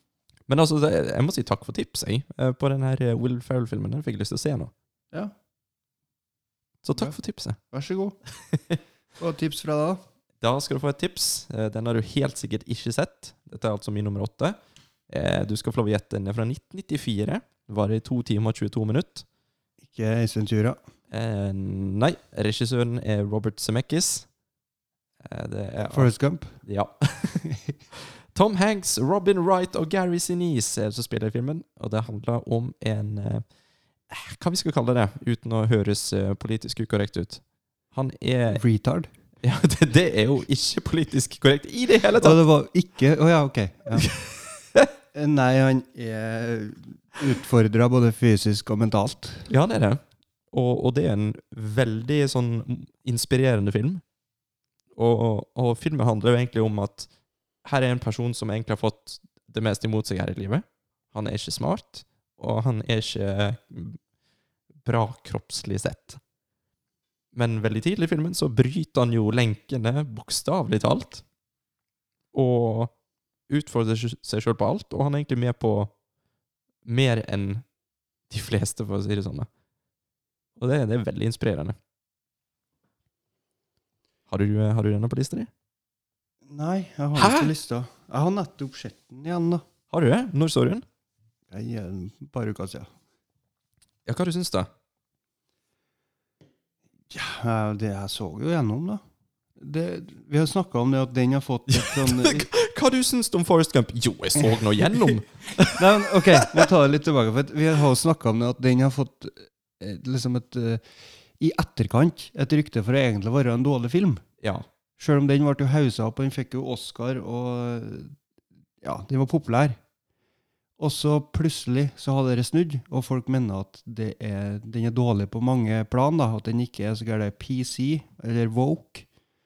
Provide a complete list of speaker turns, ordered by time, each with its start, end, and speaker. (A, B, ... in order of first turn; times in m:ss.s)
0:00.5-0:04.7 A
0:06.8-0:07.6 A
0:07.7-0:08.2 B
0:08.5-0:08.8 A
0:09.2-0:10.0 B
0:10.4-0:14.6 A
0:15.1-0:19.2 A
0:19.8-0:20.8 B
0:21.1-0:24.3 A
0:25.2-0:26.1 A
0:25.9-0:26.6 B
0:26.6-0:27.4 A
0:27.4-0:27.7 B
0:27.9-0:33.4 A
0:34.1-0:37.4 A
0:37.9-0:38.6 A
0:38.5-0:39.1 B
0:39.4-0:42.4 A
0:42.2-0:44.1 B
0:44.0-0:44.9 A
0:45.1-0:49.5 B
0:49.5-0:54.0 A
0:54.9-0:57.1 A
0:57.6-1:04.0 A
1:04.8-1:06.2 A
1:07.3-1:11.2 A
1:12.3-1:12.9 A
1:13.5-1:15.9 A
1:16.8-1:17.6 A
1:18.3-1:19.5 A
1:20.6-1:21.8 A
1:24.3-1:25.5 A
1:26.5-1:29.6 B
1:27.2-1:27.5 A
1:29.9-1:30.8 A
1:31.5-1:32.9 B
1:34.1-1:34.7 A
1:37.1-1:39.0 B
1:39.6-1:42.5 B
1:41.7-1:46.7 A
1:45.7-1:50.8 B
1:51.4-1:54.2 B
1:55.0-1:58.1 B
1:58.8-1:59.8 B
2:00.8-2:09.1 B